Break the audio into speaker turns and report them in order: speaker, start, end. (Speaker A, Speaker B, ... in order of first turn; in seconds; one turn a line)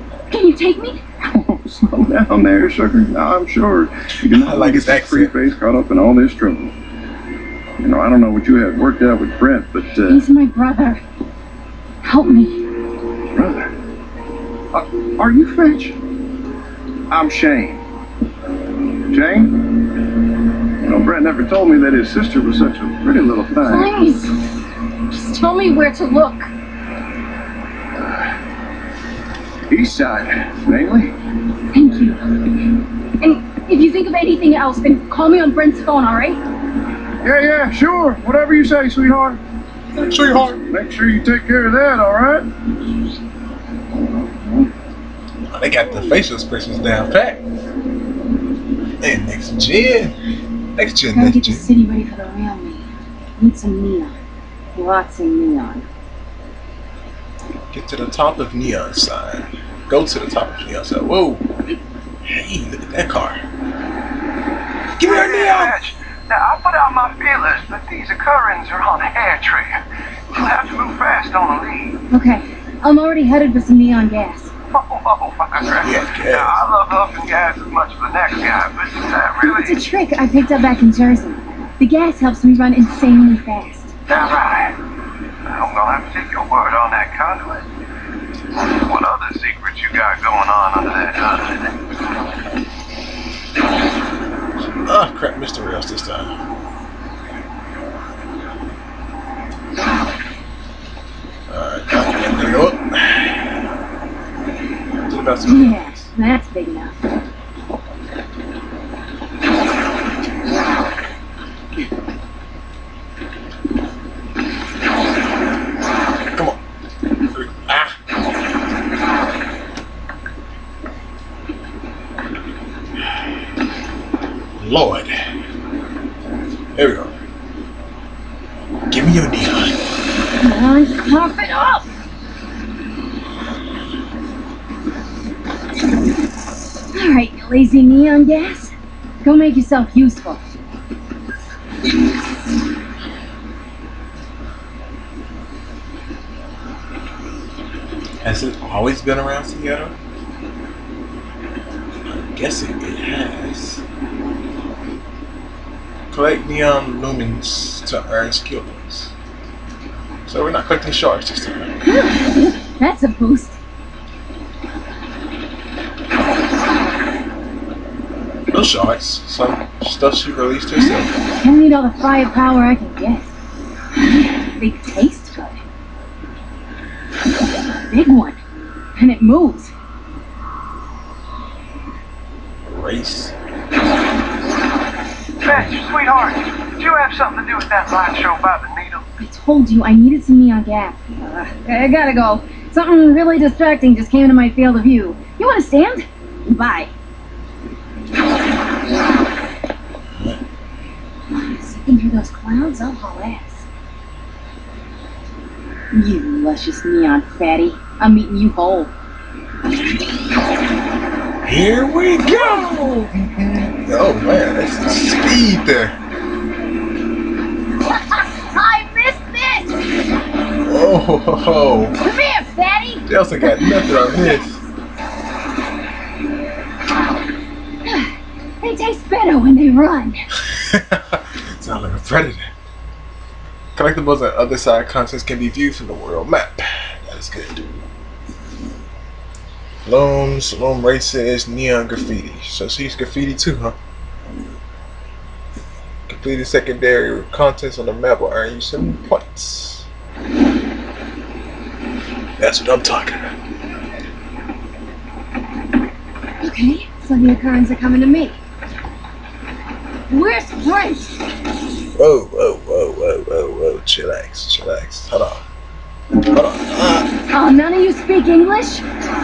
Speaker A: 0.3-1.0
Speaker B: 1.3-6.7
Speaker C: 4.2-5.4
Speaker B: 7.8-10.2
Speaker A: 10.0-11.0
Speaker A: 12.0-12.6
Speaker B: 13.3-13.7
Speaker B: 14.7-16.0
Speaker B: 17.1-17.8
Speaker B: 19.1-19.7
Speaker B: 20.8-23.9
Speaker A: 23.6-24.4
Speaker A: 25.1-26.5
Speaker B: 29.7-31.1
Speaker A: 31.7-32.6
Speaker A: 33.2-36.4
Speaker B: 37.2-39.4
Speaker C: 40.0-40.6
Speaker B: 40.7-42.5
Speaker C: 45.5-47.4
Speaker C: 49.0-50.2
Speaker C: 50.8-51.7
Speaker A: 51.1-54.2
Speaker A: 54.7-55.9
Speaker C: 57.7-61.5
Speaker C: 62.2-63.4
Speaker C: 65.0-65.8
Speaker B: 65.0-69.8
Speaker B: 70.3-72.0
Speaker A: 72.1-74.5
Speaker B: 74.7-79.8
Speaker C: 75.8-76.6
Speaker A: 79.4-83.9
Speaker B: 84.1-84.8
Speaker B: 85.4-87.7
Speaker B: 88.8-91.7
Speaker C: 94.8-96.3
Speaker C: 101.5-103.6
Speaker C: 105.1-106.1
Speaker A: 105.4-107.0
Speaker C: 117.2-118.0
Speaker C: 124.6-125.1
Speaker C: 126.7-127.1
Speaker C: 128.9-129.8
Speaker A: 130.4-131.9
Speaker A: 136.9-140.4
Speaker C: 148.2-149.9
Speaker C: 152.0-153.8
Speaker C: 156.1-159.1
Speaker C: 160.2-161.7
Speaker A: 161.8-163.6
Speaker C: 168.5-171.1
Speaker A: 171.4-173.3
Speaker A: 174.3-175.6
Speaker A: 177.9-178.4
Speaker A: 178.9-179.7
Speaker C: 182.7-183.3
Speaker B: 185.4-189.0
Speaker C: 185.5-185.7
Speaker A: 189.2-196.9
Speaker A: 201.3-203.6
Speaker A: 205.9-208.9
Speaker C: 211.4-216.0
Speaker A: 212.2-212.7
Speaker A: 217.9-219.7
Speaker C: 220.6-222.0
Speaker A: 222.0-224.4
Speaker C: 223.1-224.6
Speaker A: 227.8-230.2
Speaker C: 230.4-232.5
Speaker C: 233.7-237.7
Speaker C: 239.8-243.8
Speaker C: 246.1-249.9
Speaker C: 252.4-253.3
Speaker A: 256.4-258.4
Speaker A: 260.1-261.1
Speaker C: 261.9-265.4
Speaker C: 266.2-267.1
Speaker A: 267.3-268.9